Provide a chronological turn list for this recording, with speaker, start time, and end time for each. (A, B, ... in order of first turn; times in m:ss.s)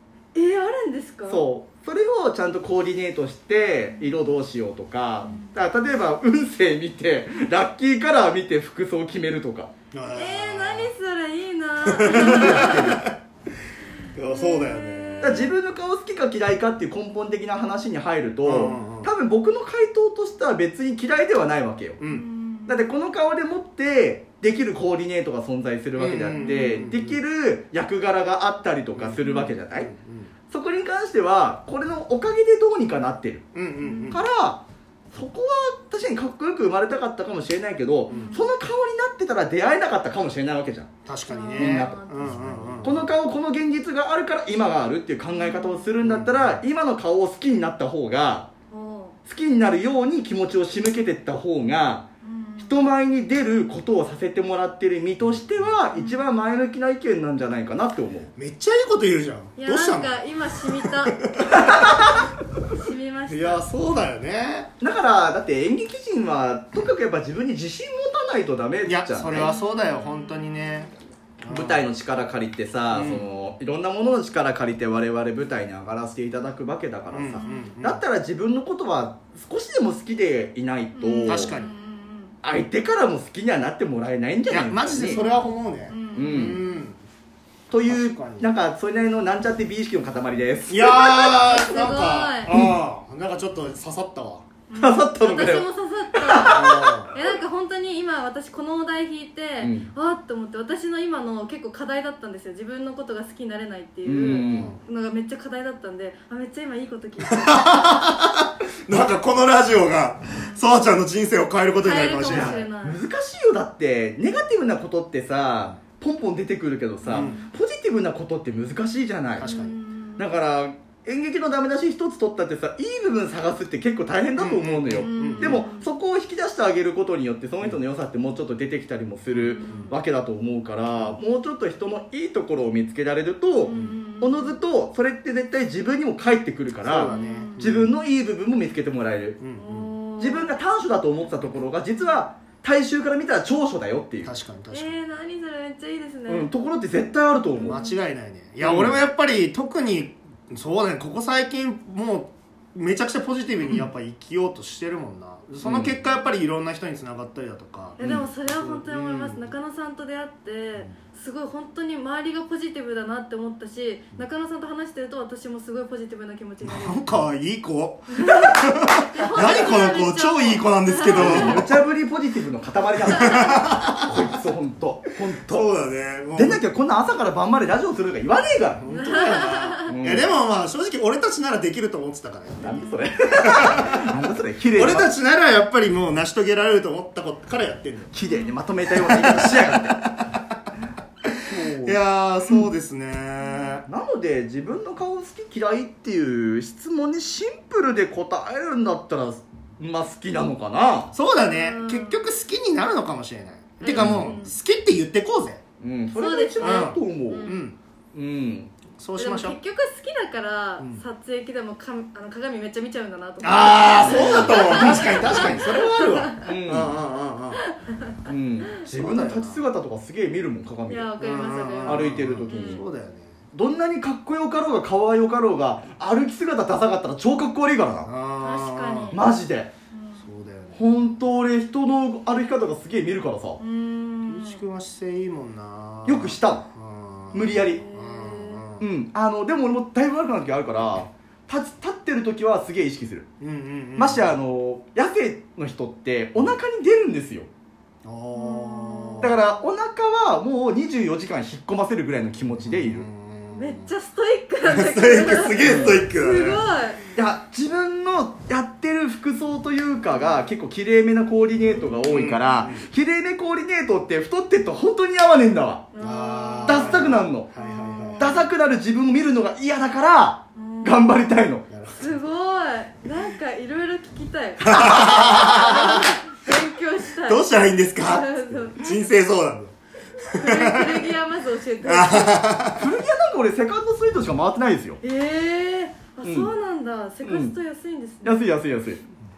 0:00.3-0:01.4 A
0:01.3-0:09.7 B
0:05.2-0:05.6 A
0:09.9-0:10.9 C
0:10.1-0:13.0 A
0:11.8-0:13.1 C
0:12.1-0:13.0 B
0:14.1-0:15.5 C
0:14.2-0:15.5 A
0:15.2-0:22.0 B
0:18.4-0:19.1 C
0:22.0-0:22.2 C
0:22.0-0:22.9 A
0:22.7-0:29.9 B
0:26.0-0:27.2 C
0:28.9-0:30.3 C
0:30.5-0:33.4 B
0:33.5-0:34.2 C
0:33.8-0:34.2 A
0:34.1-0:40.9 B
0:38.1-0:38.5 A
0:41.0-0:43.1 C
0:41.3-0:43.0 A
0:41.6-0:48.5 B
0:45.3-0:45.9 A
0:46.0-0:46.6 C
0:48.7-0:49.2 A
0:49.2-0:52.0 B
0:52.2-0:52.9 A
0:52.6-0:58.3 B
0:55.2-0:55.8 C
0:55.9-0:56.2 A
0:58.4-1:01.8 C
0:59.6-1:03.6 A
1:01.5-1:02.3 B
1:03.3-1:04.7 C
1:04.8-1:09.5 B
1:08.8-1:11.9 C
1:09.4-1:10.9 A
1:11.4-1:21.5 B
1:12.9-1:13.2 C
1:17.1-1:18.0 C
1:17.4-1:17.7 A
1:20.9-1:22.4 A
1:21.2-1:21.7 C
1:22.4-1:25.2 B
1:24.5-1:27.0 C
1:25.0-1:26.9 A
1:26.1-1:26.6 B
1:27.7-1:31.0 B
1:27.9-1:28.5 C
1:30.7-1:34.4 C
1:30.8-1:32.5 A
1:32.5-1:32.8 B
1:34.7-1:48.1 A
1:34.8-1:37.1 B
1:36.4-1:37.1 C
1:39.6-1:39.9 B
1:44.0-1:44.7 B
1:44.4-1:44.8 C
1:47.2-1:52.6 C
1:50.4-1:50.7 A
1:51.8-1:53.0 A
1:52.3-1:59.5 B
1:57.0-1:57.5 A
1:57.1-1:57.4 C
1:59.4-1:59.8 C
1:59.4-2:00.3 A
2:00.2-2:19.4 B
2:04.4-2:05.6 C
2:05.0-2:05.9 A
2:09.3-2:09.9 A
2:09.5-2:10.0 C
2:13.6-2:14.6 A
2:13.7-2:14.0 C
2:16.8-2:17.9 C
2:17.1-2:17.7 A
2:19.4-2:19.9 C
2:19.6-2:20.6 A
2:20.2-2:24.3 B
2:24.2-2:25.0 C
2:24.7-2:26.5 A
2:26.3-2:27.8 B
2:27.6-2:28.0 A
2:27.6-2:39.5 C
2:28.6-2:29.0 B
2:35.6-2:36.0 B
2:38.0-2:47.0 A
2:38.0-2:38.3 B
2:46.6-2:51.7 C
2:48.1-2:51.6 A
2:49.4-2:49.9 B
2:51.1-2:55.6 B
2:53.0-2:54.1 C
2:55.4-2:56.6 C
2:56.3-2:58.9 B
2:58.8-3:04.0 C
2:58.9-2:59.9 A
2:59.8-3:00.3 B
3:02.6-3:05.1 B
3:02.6-3:03.0 A
3:04.8-3:08.1 C
3:08.1-3:10.0 B
3:08.2-3:08.6 A
3:08.9-3:10.6 C
3:11.3-3:13.8 C
3:11.4-3:12.6 B
3:13.9-3:21.1 B
3:21.1-3:25.6 C
3:21.3-3:22.3 A
3:23.8-3:24.5 A
3:23.9-3:24.4 B
3:25.8-3:27.5 B
3:26.1-3:27.6 A
3:26.6-3:27.8 C
3:28.1-3:28.7 B
3:29.0-3:29.6 C
3:29.2-3:36.4 A
3:30.8-3:31.0 C
3:33.4-3:37.6 C
3:34.0-3:35.6 B
3:36.4-3:36.9 B
3:37.6-3:38.1 A
3:38.2-3:41.1 B
3:38.9-3:39.6 C
3:40.9-3:42.8 A
3:41.2-3:43.3 C
3:41.8-3:42.8 B
3:43.5-3:48.1 B
3:48.0-3:49.2 C
3:48.4-3:49.2 A
3:49.1-3:49.7 B
3:49.9-3:50.2 A
3:50.2-3:51.1 C
3:50.7-3:53.6 B
3:53.6-3:54.6 A
3:54.3-3:58.8 C
3:56.0-3:56.6 B
3:57.3-3:57.9 B
3:57.8-3:58.6 A
3:58.8-4:03.3 B
4:03.4-4:04.4 C
4:04.0-4:07.5 B
4:08.0-4:09.4 C
4:08.4-4:09.4 A
4:09.2-4:13.1 B
4:12.6-4:13.9 C
4:13.6-4:17.0 A
4:14.6-4:16.6 C
4:15.6-4:16.1 B
4:17.1-4:25.9 B
4:22.1-4:22.8 C
4:25.9-4:28.5 A
4:26.0-4:28.4 C
4:26.6-4:27.5 B
4:28.2-4:31.6 B
4:30.6-4:31.3 A
4:31.7-4:32.2 C
4:31.9-4:38.9 A
4:34.6-4:36.2 C
4:37.2-4:41.1 C
4:40.2-4:42.6 A
4:41.8-4:42.8 C
4:42.7-4:45.0 B
4:45.0-4:48.5 A
4:46.2-4:46.5 B
4:47.2-4:47.5 B
4:48.2-4:49.0 B